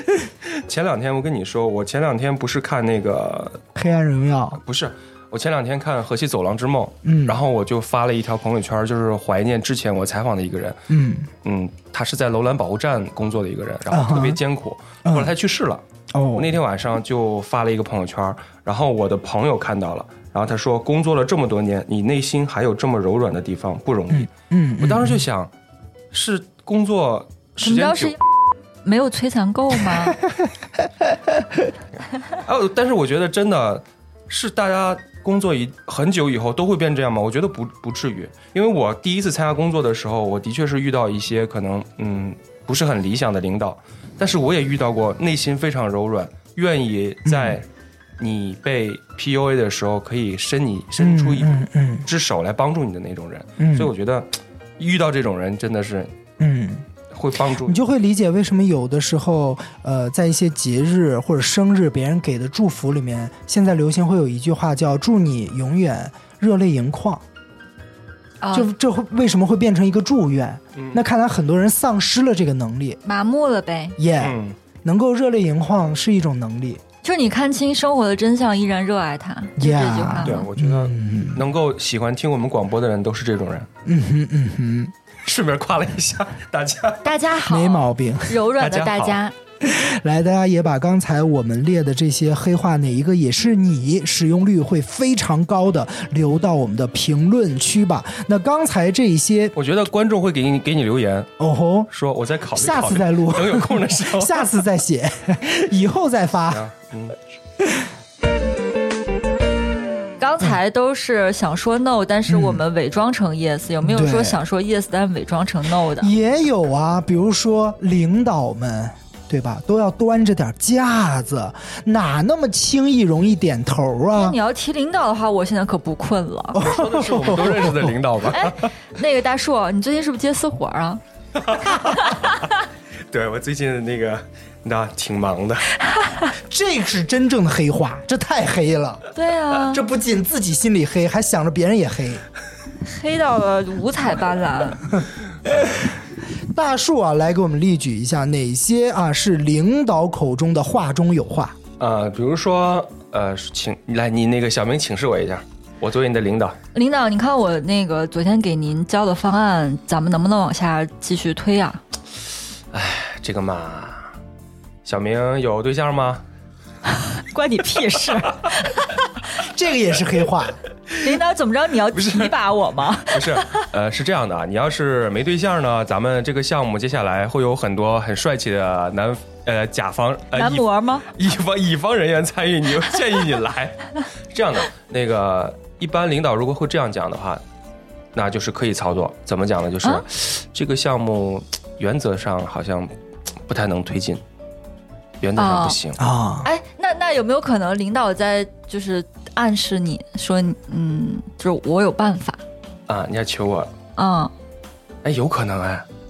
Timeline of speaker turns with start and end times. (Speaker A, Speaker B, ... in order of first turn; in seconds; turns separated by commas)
Speaker A: 0.5-3.6, Speaker B: 3.7-4.6, Speaker A: 4.6-10.8, Speaker B: 7.0-7.4, Speaker B: 10.9-11.3, Speaker A: 11.4-15.8, Speaker B: 13.9-14.4, Speaker B: 15.0-15.3, Speaker B: 16.1-16.6, Speaker A: 16.3-25.5, Speaker B: 24.1-25.2, Speaker A: 26.1-28.1, Speaker C: 27.6-28.2, Speaker C: 28.8-30.2, Speaker A: 32.3-47.6, Speaker B: 47.2-47.6, Speaker A: 48.2-56.1, Speaker B: 51.0-52.0, Speaker B: 53.6-53.9, Speaker B: 56.4-56.8, Speaker A: 57.1-57.8, Speaker B: 57.6-67.2, Speaker C: 68.4-68.7, Speaker B: 68.5-73.0, Speaker A: 70.7-71.0, Speaker C: 73.0-74.0, Speaker B: 74.0-76.8, Speaker A: 74.2-74.5, Speaker C: 77.0-80.5, Speaker B: 79.6-81.5, Speaker A: 80.2-83.7, Speaker B: 83.8-84.9, Speaker A: 85.2-87.0, Speaker C: 87.0-89.3, Speaker B: 87.5-88.4, Speaker A: 88.5-89.2, Speaker B: 89.6-99.5, Speaker A: 99.5-101.3, Speaker B: 101.4-101.9, Speaker A: 101.9-104.5, Speaker B: 102.5-106.6, Speaker A: 106.5-107.2, Speaker C: 110.2-116.1, Speaker B: 112.3-112.6, Speaker B: 113.8-114.4, Speaker B: 116.0-124.4, Speaker C: 124.1-126.6, Speaker B: 126.5-128.0, Speaker A: 126.6-128.7, Speaker C: 128.3-131.0, Speaker A: 131.3-132.3, Speaker C: 131.7-132.5, Speaker A: 133.1-135.7, Speaker B: 136.4-139.0, Speaker C: 139.1-139.8, Speaker B: 139.7-142.2, Speaker C: 142.8-144.9, Speaker B: 145.4-145.9, Speaker B: 146.5-151.6, Speaker A: 151.8-156.6, Speaker C: 156.7-161.8, Speaker A: 162.7-164.1, Speaker A: 164.8-166.2, Speaker C: 166.9-169.0, Speaker B: 169.4-170.6, Speaker C: 171.0-173.7, Speaker A: 171.9-172.4, Speaker A: 173.1-187.4, Speaker C: 180.3-181.1, Speaker A: 188.1-192.9, Speaker A: 193.5-194.2, Speaker A: 195.2-196.0, Speaker C: 195.4-195.8, Speaker B: 196.0-196.5, Speaker C: 196.4-202.4, Speaker A: 202.9-203.7, Speaker C: 203.9-204.3, Speaker A: 205.0-205.8